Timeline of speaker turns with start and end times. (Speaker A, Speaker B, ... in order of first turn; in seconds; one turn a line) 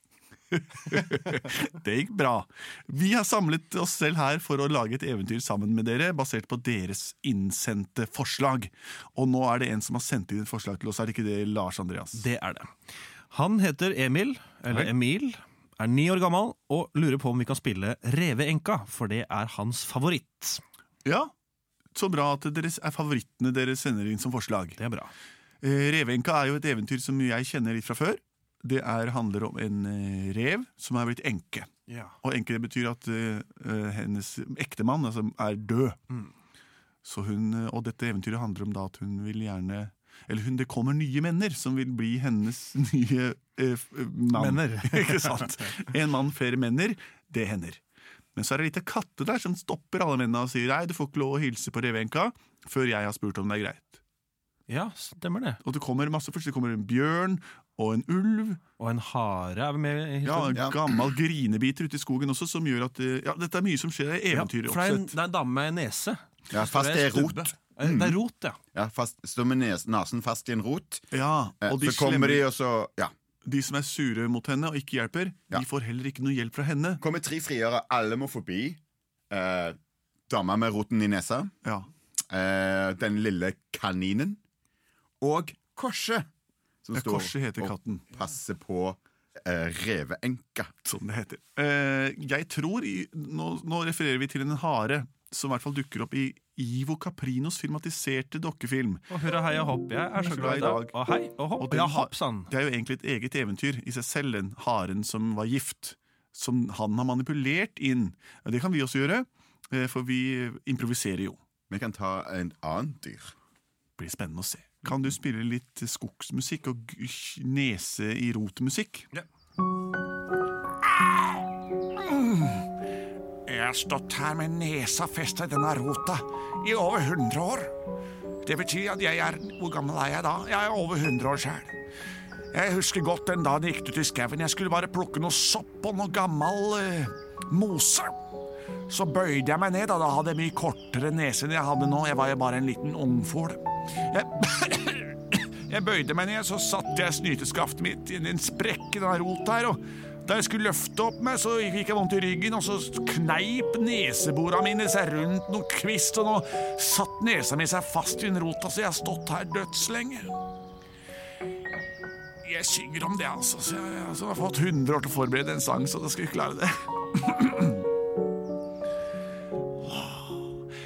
Speaker A: 0.5-12.2
Speaker B: 12.2-12.7
Speaker B: 13.3-20.6
Speaker A: 21.0-21.3
Speaker A: 21.9-24.8
Speaker B: 24.8-25.1
Speaker A: 25.6-31.7
Speaker B: 31.9-32.1
Speaker A: 32.2-36.0
Speaker A: 37.0-47.8
Speaker B: 44.3-45.5
Speaker A: 48.3-54.0
Speaker B: 54.7-55.6
Speaker A: 55.6-58.6
Speaker B: 58.8-60.6
Speaker A: 60.2-65.2
Speaker C: 60.5-60.8
Speaker B: 64.3-68.6
Speaker C: 66.5-68.2
Speaker C: 68.7-71.1
Speaker A: 71.1-72.5
Speaker C: 71.6-73.1
Speaker A: 73.4-77.0
Speaker C: 77.0-79.8
Speaker C: 80.3-81.5
Speaker C: 82.3-84.4
Speaker C: 85.2-86.2
Speaker C: 86.8-90.7
Speaker A: 86.9-88.1
Speaker A: 90.8-99.1
Speaker B: 99.1-102.5
Speaker A: 100.2-101.0
Speaker A: 101.6-111.4
Speaker C: 111.7-113.3
Speaker A: 114.0-119.1
Speaker A: 122.0-122.6
Speaker A: 123.5-127.7
Speaker A: 128.4-131.7
Speaker A: 132.5-138.2
Speaker A: 138.9-160.3
Speaker A: 162.4-167.8
Speaker A: 169.8-170.4